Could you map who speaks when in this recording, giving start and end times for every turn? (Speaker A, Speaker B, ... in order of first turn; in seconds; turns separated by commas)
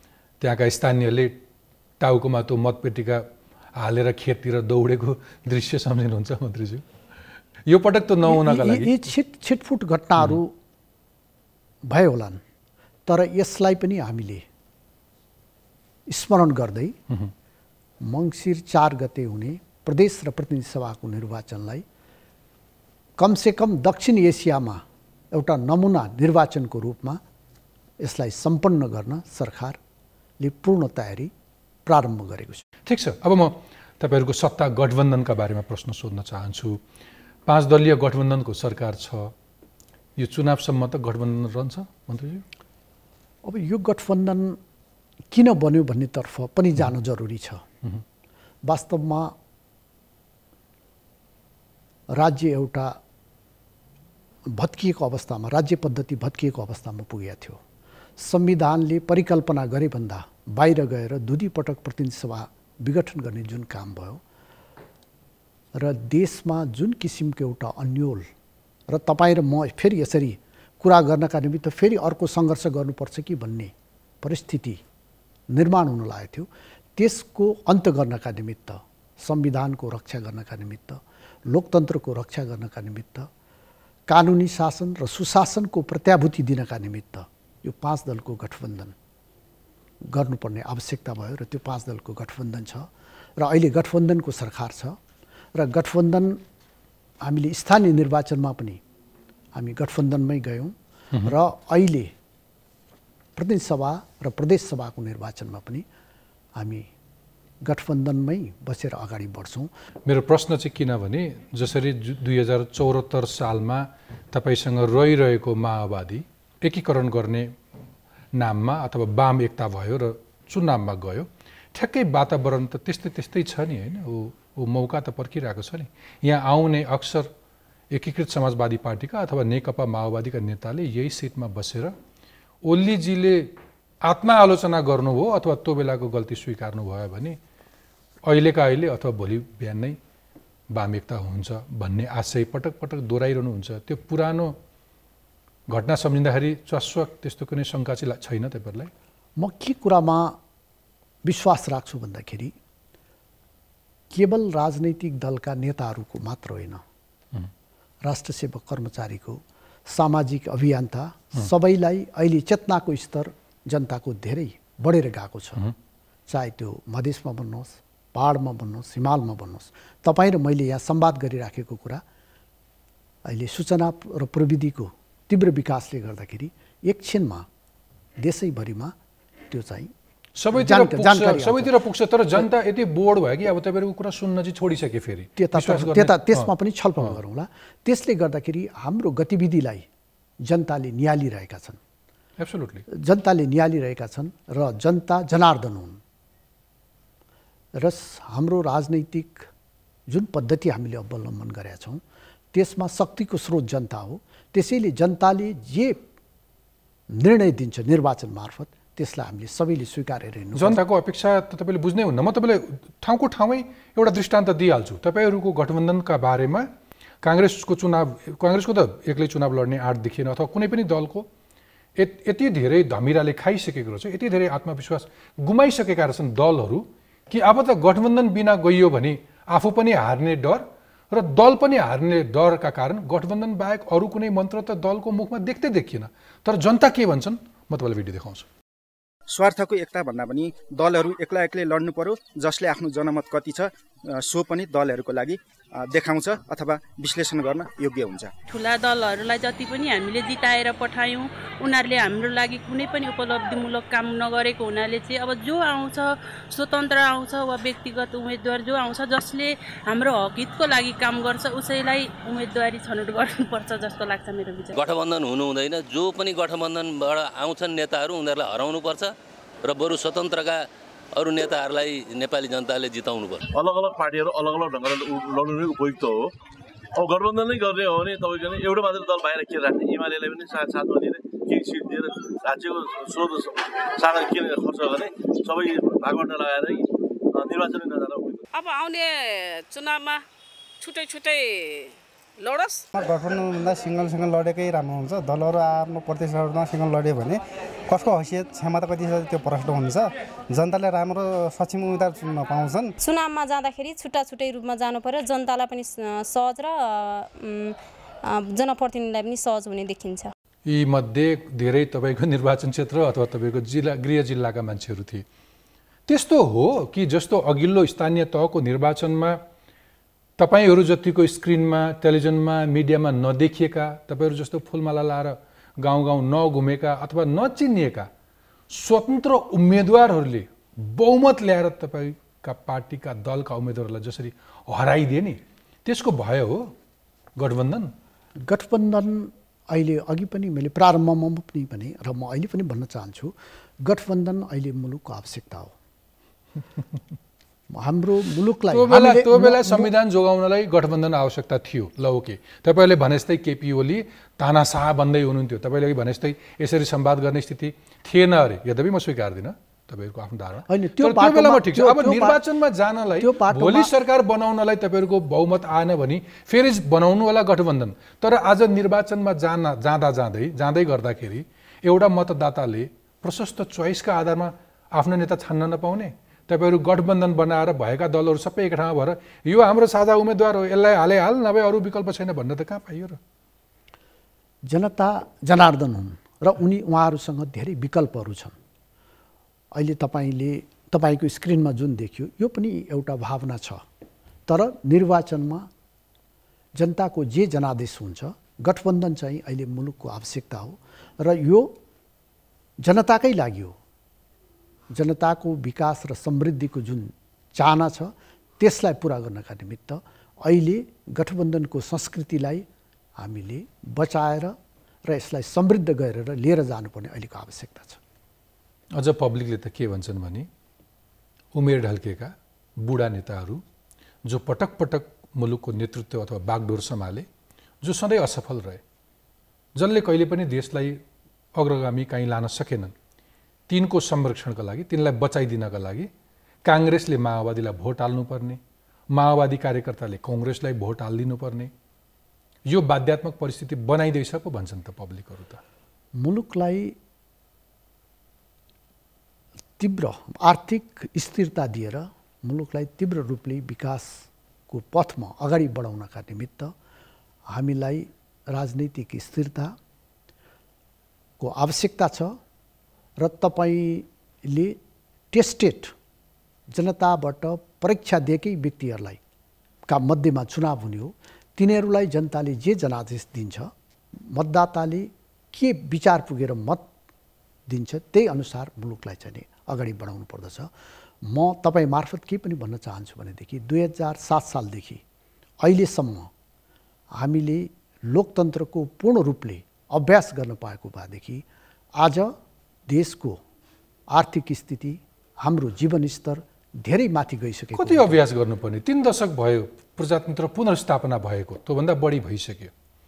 Speaker A: 0.4-1.4, Speaker A: 2.0-6.8, Speaker A: 7.7-9.1, Speaker B: 8.3-10.5, Speaker B: 11.9-12.4, Speaker B: 13.1-14.4, Speaker B: 16.1-17.0, Speaker B: 18.0-21.8, Speaker B: 23.2-27.2, Speaker B: 28.0-29.8, Speaker B: 30.4-31.3, Speaker B: 31.9-32.6, Speaker A: 32.9-36.8, Speaker A: 37.5-39.3, Speaker A: 40.2-42.5, Speaker B: 43.4-44.6, Speaker B: 45.3-47.6, Speaker B: 48.6-49.3, Speaker B: 52.1-53.0, Speaker B: 54.5-57.6, Speaker B: 58.2-64.2, Speaker B: 65.8-68.3, Speaker B: 68.9-74.8, Speaker B: 75.5-83.3, Speaker B: 84.1-89.0, Speaker B: 90.1-95.0, Speaker B: 95.5-96.4, Speaker B: 97.2-98.8, Speaker B: 99.5-102.1, Speaker B: 103.4-105.9, Speaker B: 106.6-106.9, Speaker B: 107.6-109.7, Speaker A: 110.1-117.6, Speaker A: 118.3-127.3, Speaker A: 127.9-131.9, Speaker A: 132.6-137.4, Speaker A: 138.2-140.0, Speaker A: 140.7-144.6, Speaker A: 145.7-148.9, Speaker B: 149.4-150.4, Speaker B: 151.2-152.5, Speaker B: 154.1-156.8, Speaker B: 158.0-165.6, Speaker B: 166.3-172.0, Speaker B: 173.2-177.5, Speaker B: 178.2-178.9, Speaker B: 179.5-179.9, Speaker A: 180.4-187.2, Speaker B: 180.5-181.7, Speaker B: 185.4-189.9, Speaker B: 190.4-191.8, Speaker A: 192.4-192.9, Speaker B: 192.9-196.0, Speaker B: 197.8-199.5, Speaker B: 200.1-202.0, Speaker B: 202.5-206.0, Speaker B: 207.1-210.8, Speaker A: 210.5-216.7, Speaker A: 217.2-221.3, Speaker A: 222.0-238.5, Speaker C: 239.3-248.3, Speaker D: 248.5-264.8, Speaker E: 264.7-269.1, Speaker E: 269.6-273.4, Speaker F: 273.5-276.3, Speaker F: 277.0-288.4, Speaker G: 288.5-290.2, Speaker G: 290.8-292.9, Speaker H: 292.9-302.9, Speaker I: 303.0-310.3, Speaker A: 310.6-315.3, Speaker A: 316.1-319.4, Speaker A: 320.4-328.1, Speaker A: 328.7-336.7, Speaker A: 337.4-337.9, Speaker B: 338.4-345.7, Speaker B: 347.7-349.9, Speaker A: 348.7-383.2, Speaker B: 360.7-362.4, Speaker B: 363.2-363.9, Speaker B: 384.7-388.6, Speaker B: 389.7-393.8, Speaker B: 394.5-395.7, Speaker B: 396.8-401.7, Speaker B: 402.8-403.8, Speaker B: 404.9-412.6, Speaker B: 413.2-418.0, Speaker A: 418.9-420.5, Speaker A: 421.5-423.6, Speaker A: 424.2-427.3, Speaker A: 427.8-428.8, Speaker A: 429.8-431.0, Speaker A: 431.6-432.9, Speaker A: 433.7-436.1, Speaker A: 436.6-438.6, Speaker A: 439.1-441.7, Speaker A: 442.7-445.6, Speaker B: 446.2-446.9, Speaker B: 449.8-456.7, Speaker B: 457.5-459.8, Speaker B: 461.4-462.4, Speaker B: 463.2-464.8, Speaker B: 465.3-465.9, Speaker B: 466.7-469.2, Speaker B: 469.9-476.9, Speaker B: 477.7-480.7, Speaker B: 481.2-485.0, Speaker B: 485.6-486.3, Speaker B: 487.1-491.4, Speaker B: 492.0-492.3, Speaker B: 492.9-493.4, Speaker B: 494.1-498.2, Speaker A: 497.7-502.7